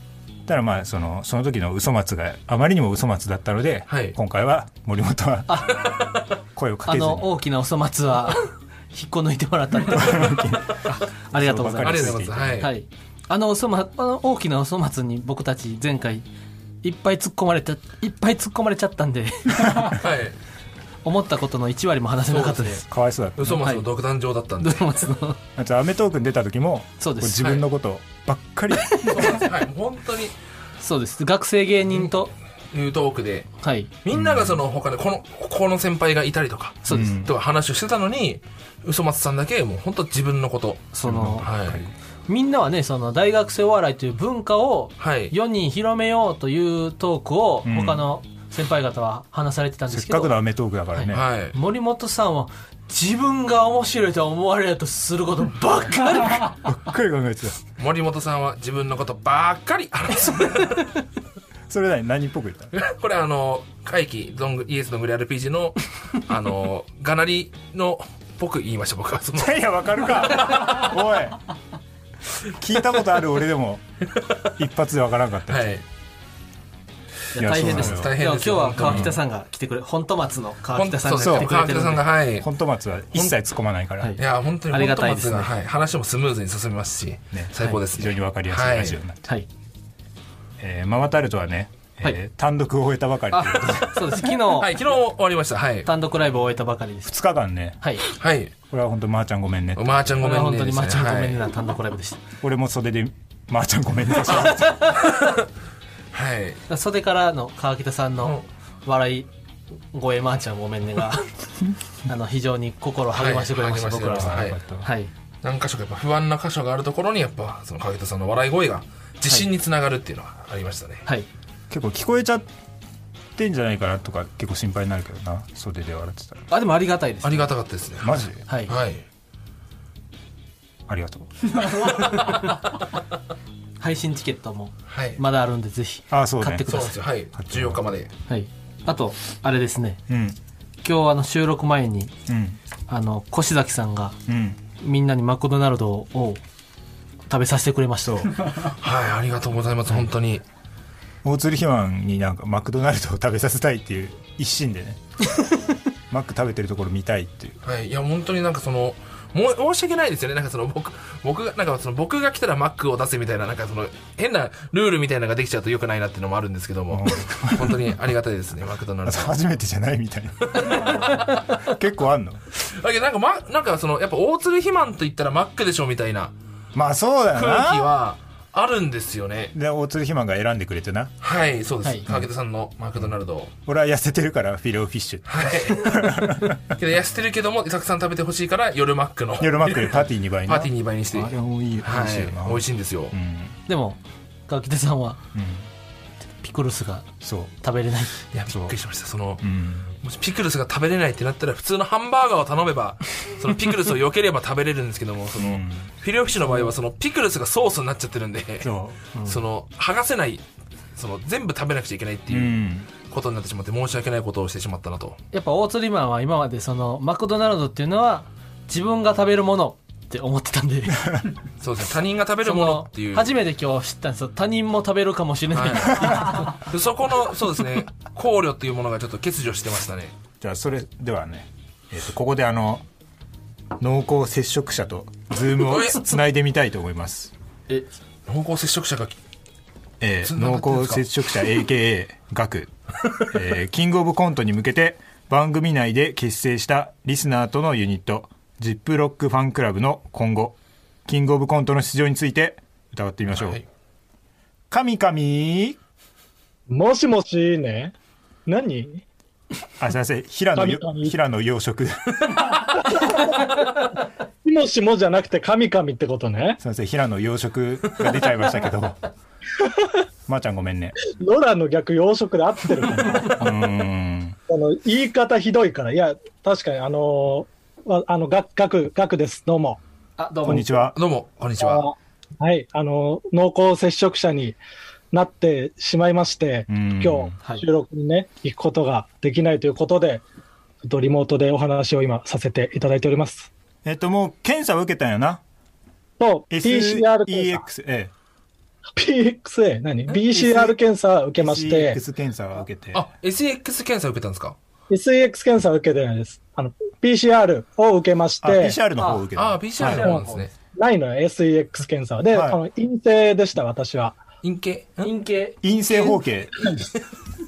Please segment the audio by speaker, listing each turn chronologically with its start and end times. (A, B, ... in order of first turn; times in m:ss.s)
0:00.5-0:05.8 A
0:03.9-0:04.2 B
0:05.5-0:05.8 C
0:05.8-0:06.2 B
0:06.6-0:07.3 A
0:06.9-0:16.2 C
0:09.8-0:12.6 A
0:11.8-0:12.7 B
0:16.8-0:20.0 C
0:19.9-0:20.4 B
0:21.0-0:22.8 C
0:22.3-0:22.8 B
0:22.8-0:23.7 A
0:23.4-0:24.8 B
0:24.6-0:25.4 C
0:25.6-0:29.4 A
0:27.0-0:27.6 C
0:28.9-0:29.4 C
0:29.1-0:30.4 B
0:30.8-0:32.3 C
0:32.7-0:33.5 B
0:33.6-0:33.9 C
0:34.0-0:40.9 B
0:34.1-0:34.6 A
0:36.9-0:37.2 C
0:36.9-0:37.3 A
0:40.9-0:41.5 C
0:41.0-0:41.9 A
0:41.4-0:41.8 B
0:42.3-0:50.4 C
0:45.0-0:45.3 B
0:47.7-0:48.1 A
0:49.9-0:51.3 A
0:50.9-0:56.6 C
0:51.1-0:51.6 B
0:56.4-0:57.6 A
0:57.8-1:00.9 B
1:01.7-1:02.8 A
1:02.8-1:09.6 B
1:09.4-1:11.4 A
1:12.5-1:13.8 A
1:14.6-1:15.7 A
1:15.5-1:15.8 B
1:17.3-1:22.0 C
1:17.4-1:18.2 A
1:17.5-1:19.2 B
1:18.8-1:19.2 A
1:20.8-1:22.5 B
1:21.2-1:21.5 A
1:22.4-1:24.1 A
1:24.0-1:25.5 C
1:24.2-1:29.0 B
1:27.3-1:29.3 A
1:30.6-1:34.2 A
1:33.3-1:34.7 C
1:34.6-1:35.9 B
1:35.8-1:37.2 C
1:37.1-1:37.8 A
1:38.2-1:38.5 B
1:38.7-1:40.1 A
1:39.8-1:41.4 B
1:40.2-1:42.2 C
1:42.4-1:44.8 A
1:44.7-1:45.0 C
1:44.9-1:45.4 B
1:46.1-1:46.6 B
1:46.7-1:49.3 C
1:49.9-1:51.3 C
1:52.1-1:55.1 C
1:53.1-1:54.6 B
1:54.2-1:54.9 A
1:55.4-2:01.0 B
2:01.7-2:02.5 A
2:03.4-2:06.4 A
2:06.5-2:07.5 C
2:07.2-2:09.0 B
2:08.0-2:08.4 A
2:08.5-2:08.7 C
2:10.9-2:11.9 A
2:11.8-2:12.6 C
2:13.8-2:16.9 C
2:14.9-2:15.2 B
2:16.1-2:16.7 A
2:16.7-2:18.1 B
2:17.4-2:17.8 A
2:18.3-2:20.0 C
2:20.1-2:20.4 A
2:20.8-2:22.1 C
2:22.3-2:22.6 A
2:22.9-2:24.2 C
2:24.3-2:24.6 A
2:24.8-2:26.4 C
2:27.3-2:28.4 C
2:28.0-2:28.3 A
2:28.7-2:30.4 B
2:31.2-2:35.0 A
2:36.1-2:37.6 A
2:37.6-2:49.3 B
2:46.9-2:47.9 A
2:49.0-2:52.4 A
2:50.5-2:51.0 B
2:51.2-2:51.6 C
2:52.8-2:56.4 B
2:56.8-2:57.9 A
2:57.3-2:59.5 B
2:59.5-3:01.1 A
3:01.2-3:03.5 B
3:03.7-3:06.6 A
3:05.3-3:06.1 B
3:06.7-3:13.2 B
3:09.4-3:13.6 A
3:13.7-3:15.2 C
3:15.3-3:15.7 A
3:16.4-3:17.1 C
3:17.2-3:17.5 A
3:17.6-3:18.1 C
3:18.3-3:19.5 B
3:18.5-3:18.8 A
3:19.4-3:19.9 A
3:20.0-3:30.4 B
3:25.4-3:25.9 A
3:28.6-3:29.0 A
3:29.2-3:29.4 C
3:30.9-3:35.2 B
3:32.3-3:32.9 A
3:35.3-3:41.1 C
3:41.6-3:43.4 B
3:42.4-3:46.6 C
3:45.5-3:50.1 B
3:50.4-3:52.8 A
3:53.8-3:57.3 A
3:55.5-3:56.2 B
3:58.3-3:59.2 B
4:00.0-4:13.6 A
4:00.2-4:01.0 B
4:13.3-4:13.6 B
4:14.7-4:15.8 A
4:16.7-4:17.9 D
4:18.5-4:19.0 D
4:19.8-4:22.6 A
4:20.6-4:21.1 D
4:22.8-4:23.6 D
4:24.4-4:26.6 D
4:26.6-4:29.0 A
4:30.3-4:31.0 A
4:31.1-4:33.5 D
4:33.4-4:34.4 A
4:34.5-4:39.8 D
4:40.2-4:40.7 C
4:40.5-4:41.0 A
4:40.5-4:40.9 D
4:41.0-4:41.9 B
4:41.6-4:44.6 D
4:45.1-4:50.2 D
4:46.7-4:47.4 A
4:50.8-4:53.5 D
4:53.8-4:55.4 A
4:56.2-4:57.6 D
4:56.5-4:58.1 A
4:59.0-5:02.0 D
5:00.1-5:00.8 A
5:01.4-5:03.0 A
5:02.9-5:04.6 B
5:04.9-5:08.8 D
5:08.4-5:10.1 A
5:09.0-5:09.2 C
5:09.4-5:10.5 B
5:09.9-5:14.2 D
5:12.3-5:12.6 A
5:14.4-5:15.1 B
5:15.0-5:16.2 C
5:15.6-5:16.6 A